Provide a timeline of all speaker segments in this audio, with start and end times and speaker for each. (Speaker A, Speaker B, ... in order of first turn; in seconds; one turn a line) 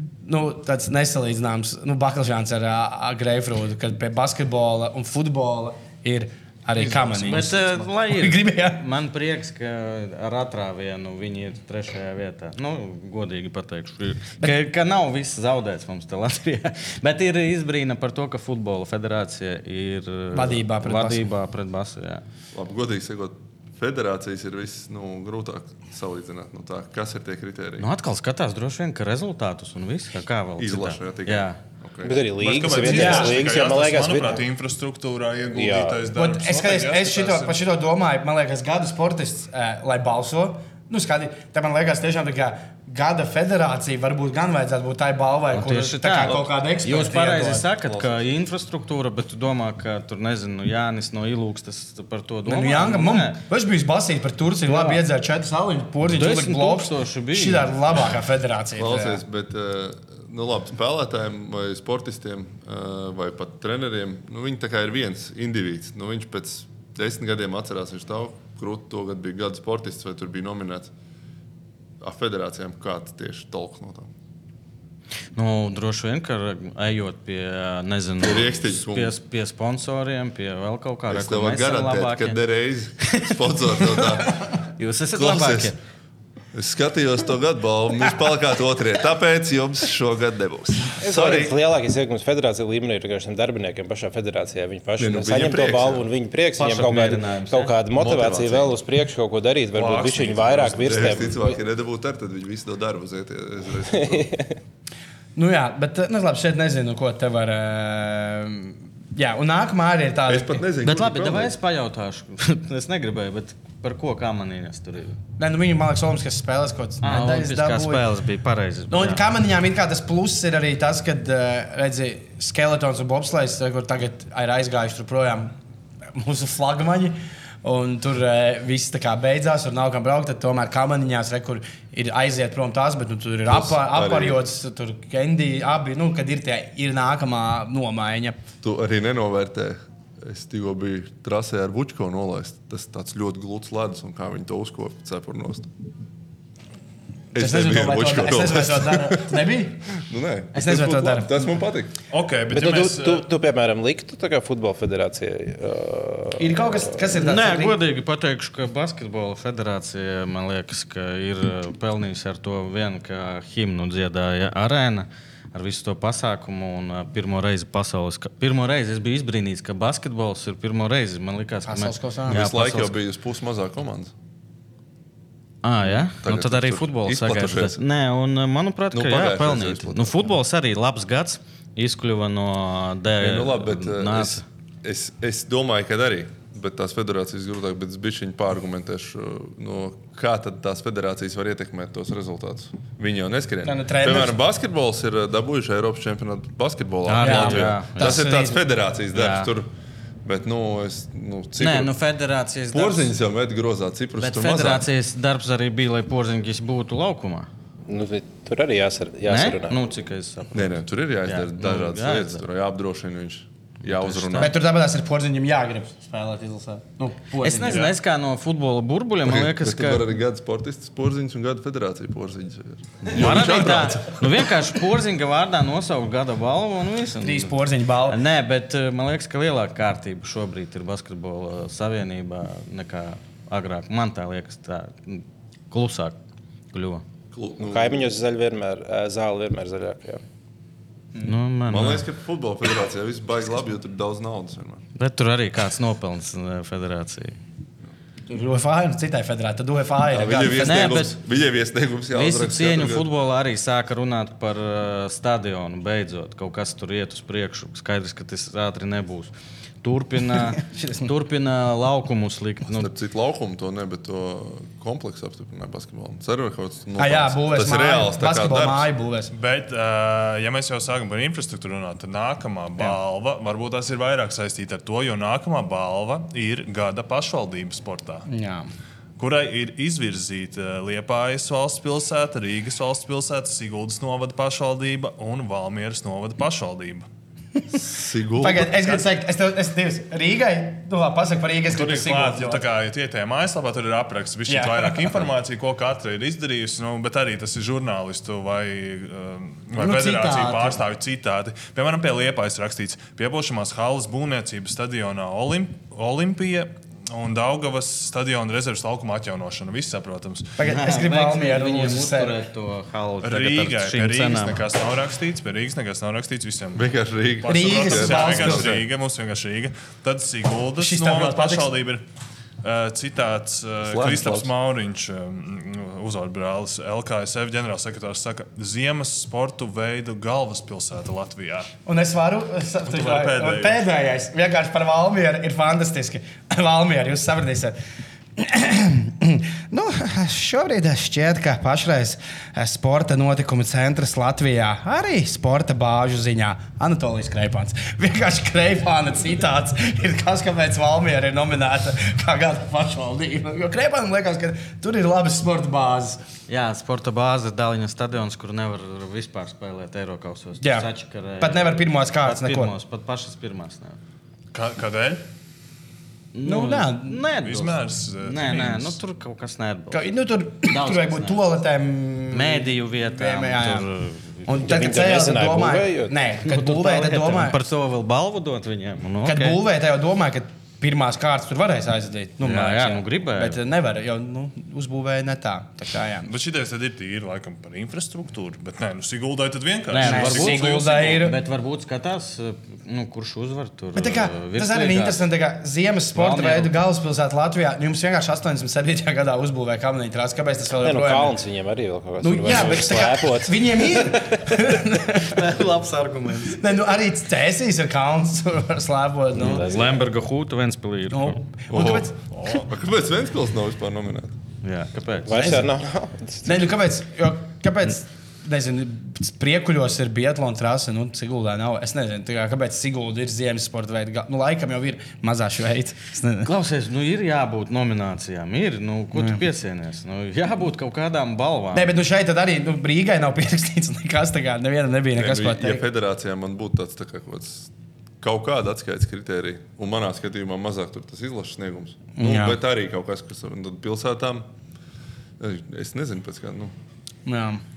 Speaker A: 0.2-8.8
Speaker B: 6.8-7.5
Speaker C: 7.1-22.2
Speaker A: 20.3-21.3
Speaker D: 22.5-27.9
Speaker C: 27.8-31.6
Speaker D: 30.6-32.2
Speaker E: 32.0-34.4
Speaker B: 32.4-37.6
Speaker A: 32.9-33.4
Speaker E: 35.5-36.0
Speaker A: 36.1-47.7
Speaker C: 45.5-53.4
Speaker D: 47.8-48.2
Speaker A: 52.5-59.2
Speaker C: 54.7-55.0
Speaker C: 56.1-57.7
Speaker D: 58.8-70.9
Speaker D: 72.0-74.1
Speaker C: 75.4-82.4
Speaker D: 78.2-79.2
Speaker D: 81.1-84.4
Speaker C: 83.0-83.3
Speaker C: 84.8-85.8
Speaker D: 85.1-85.7
Speaker D: 86.5-91.6
Speaker E: 91.0-101.6
Speaker D: 95.0-96.1
Speaker C: 96.6-97.7
Speaker D: 98.0-98.7
Speaker B: 99.7-101.3
Speaker D: 100.8-104.3
Speaker E: 103.9-104.5
Speaker A: 105.4-110.6
Speaker D: 110.3-111.6
Speaker C: 110.8-115.2
Speaker A: 115.4-118.0
Speaker C: 117.0-119.2
Speaker A: 118.9-125.5
Speaker A: 126.2-138.4
Speaker D: 133.5-134.4
Speaker D: 138.6-145.7
Speaker D: 147.3-151.9
Speaker A: 147.4-149.9
Speaker A: 150.5-151.3
Speaker B: 152.1-153.3
Speaker E: 152.5-157.1
Speaker A: 156.4-157.8
Speaker C: 157.1-172.9
Speaker A: 171.7-172.4
Speaker D: 172.3-174.1
Speaker C: 175.6-184.4
Speaker D: 176.2-177.8
Speaker D: 178.9-180.3
Speaker D: 183.2-199.7
Speaker A: 193.6-194.4
Speaker C: 197.1-198.3
Speaker A: 197.2-198.6
Speaker C: 199.1-199.5
Speaker D: 200.2-201.9
Speaker C: 201.6-203.1
Speaker D: 202.7-204.9
Speaker C: 204.2-207.5
Speaker E: 207.9-209.8
Speaker C: 209.3-212.4
Speaker D: 210.5-214.6
Speaker C: 213.8-214.6
Speaker A: 214.4-217.8
Speaker C: 217.4-220.1
Speaker B: 217.7-217.9
Speaker D: 219.2-224.5
Speaker C: 223.1-227.5
Speaker A: 223.2-223.5
Speaker B: 223.4-223.8
Speaker A: 227.2-228.2
Speaker C: 228.1-236.2
Speaker C: 236.7-237.0
Speaker D: 237.3-238.1
Speaker E: 237.6-240.2
Speaker C: 241.2-242.1
Speaker D: 241.7-244.8
Speaker C: 245.0-247.4
Speaker A: 248.3-250.9
Speaker D: 250.1-253.1
Speaker C: 250.6-251.2
Speaker C: 252.1-262.9
Speaker A: 260.6-261.1
Speaker D: 262.7-268.9
Speaker A: 267.0-269.3
Speaker B: 269.3-278.3
Speaker A: 278.3-278.7
Speaker B: 279.2-287.1
Speaker D: 287.7-288.8
Speaker A: 288.4-292.6
Speaker B: 291.7-310.6
Speaker A: 294.5-295.2
Speaker A: 299.8-300.8
Speaker A: 310.6-312.4
Speaker C: 310.6-314.6
Speaker B: 313.2-316.9
Speaker D: 316.8-318.8
Speaker B: 317.4-322.1
Speaker A: 317.5-318.8
Speaker A: 320.8-321.7
Speaker B: 322.6-331.7
Speaker D: 323.8-324.5
Speaker A: 331.9-337.8
Speaker B: 332.9-333.8
Speaker A: 338.4-356.2
Speaker C: 356.5-364.0
Speaker A: 360.6-360.9
Speaker A: 361.4-362.7
Speaker B: 364.5-365.2
Speaker C: 366.3-370.0
Speaker A: 366.4-367.2
Speaker B: 367.4-369.0
Speaker A: 369.9-373.9
Speaker C: 370.7-371.4
Speaker C: 372.3-374.6
Speaker A: 374.5-377.6
Speaker E: 374.6-376.2
Speaker C: 376.4-379.6
Speaker A: 379.2-386.3
Speaker C: 382.4-383.6
Speaker B: 386.2-391.2
Speaker C: 389.9-395.2
Speaker A: 390.0-391.4
Speaker A: 394.0-401.4
Speaker C: 396.1-396.7
Speaker E: 400.8-404.7
Speaker A: 402.2-405.5
Speaker C: 405.1-406.6
Speaker A: 406.5-409.8
Speaker C: 409.4-411.4
Speaker E: 409.4-410.0
Speaker A: 411.1-412.6
Speaker D: 411.7-414.3
Speaker C: 414.6-415.6
Speaker E: 415.3-416.6
Speaker A: 415.4-415.6
Speaker A: 416.5-426.5
Speaker C: 426.4-431.9
Speaker A: 429.1-429.4
Speaker A: 431.7-435.8
Speaker D: 435.1-437.7
Speaker D: 438.2-444.5
Speaker A: 442.2-442.6
Speaker D: 445.4-446.7
Speaker A: 447.3-447.6